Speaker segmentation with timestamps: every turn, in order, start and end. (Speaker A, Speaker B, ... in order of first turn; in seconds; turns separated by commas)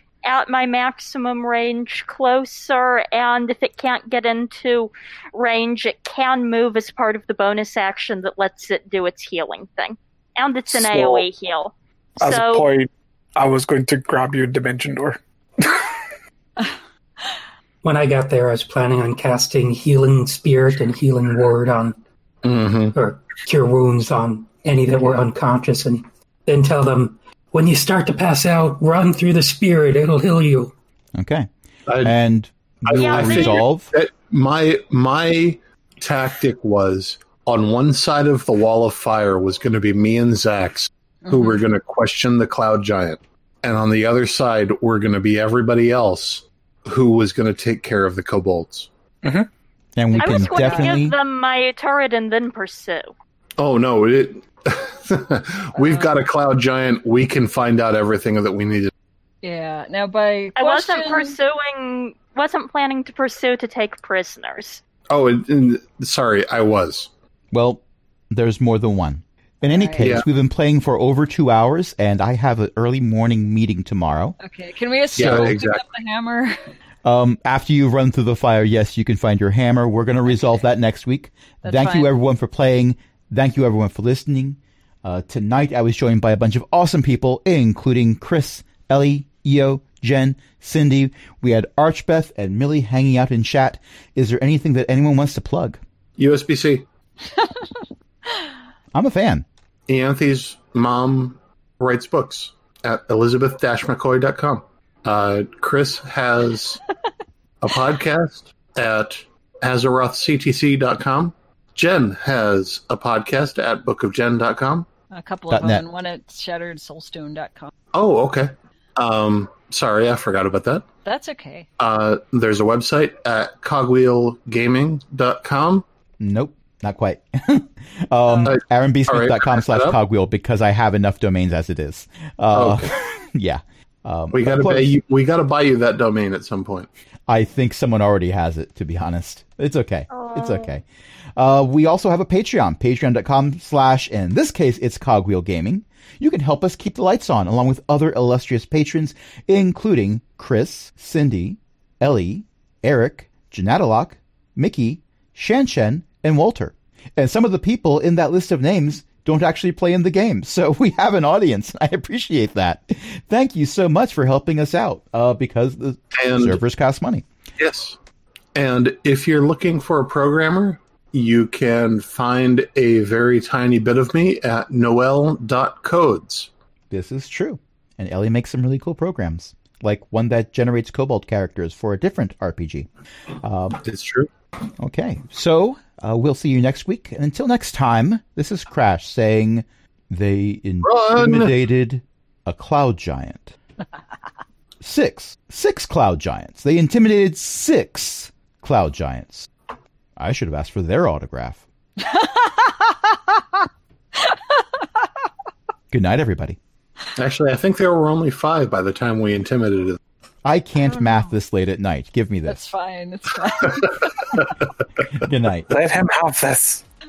Speaker A: 0.2-12.7, Speaker B: 10.7-11.3, Speaker B: 12.2-15.9, Speaker C: 17.8-22.0, Speaker D: 22.4-22.9, Speaker C: 22.9-30.7, Speaker E: 31.1-31.5, Speaker D: 31.9-32.1, Speaker E: 32.0-33.9, Speaker D: 32.9-48.9, Speaker A: 32.9-33.6, Speaker F: 41.2-41.6, Speaker E: 50.0-51.1, Speaker A: 50.1-53.1, Speaker F: 50.2-51.1, Speaker D: 53.6-58.9, Speaker F: 55.8-56.1, Speaker F: 59.4-61.4, Speaker A: 60.6-64.8, Speaker D: 65.1-67.1, Speaker E: 67.5-74.3, Speaker F: 69.7-70.2, Speaker D: 70.0-70.3, Speaker F: 74.4-76.7, Speaker D: 75.2-75.8, Speaker E: 75.2-75.5, Speaker E: 77.0-95.8, Speaker F: 81.6-82.1, Speaker D: 96.2-96.8, Speaker F: 97.3-98.5, Speaker E: 98.9-99.5, Speaker D: 99.9-106.8, Speaker D: 107.6-114.9, Speaker F: 115.1-117.7, Speaker E: 115.5-115.8, Speaker D: 117.9-120.9, Speaker F: 121.0-121.7, Speaker D: 121.8-125.8, Speaker E: 126.2-135.0, Speaker F: 128.3-128.6, Speaker D: 128.4-130.0, Speaker D: 132.5-132.9, Speaker D: 134.3-136.9, Speaker E: 137.3-140.8, Speaker A: 140.1-140.7, Speaker E: 141.4-167.2, Speaker D: 166.1-166.6, Speaker D: 167.6-168.0, Speaker D: 168.5-176.5, Speaker E: 176.9-182.9, Speaker E: 183.4-183.8, Speaker D: 183.8-184.3, Speaker E: 184.8-193.6, Speaker D: 190.8-191.6, Speaker E: 194.8-199.5, Speaker E: 200.2-201.6, Speaker F: 202.0-205.1, Speaker E: 205.9-206.6, Speaker D: 207.2-210.0, Speaker E: 210.4-212.6, Speaker F: 210.8-211.3, Speaker F: 212.4-214.4, Speaker D: 213.8-214.5, Speaker E: 215.1-215.7, Speaker B: 215.7-216.8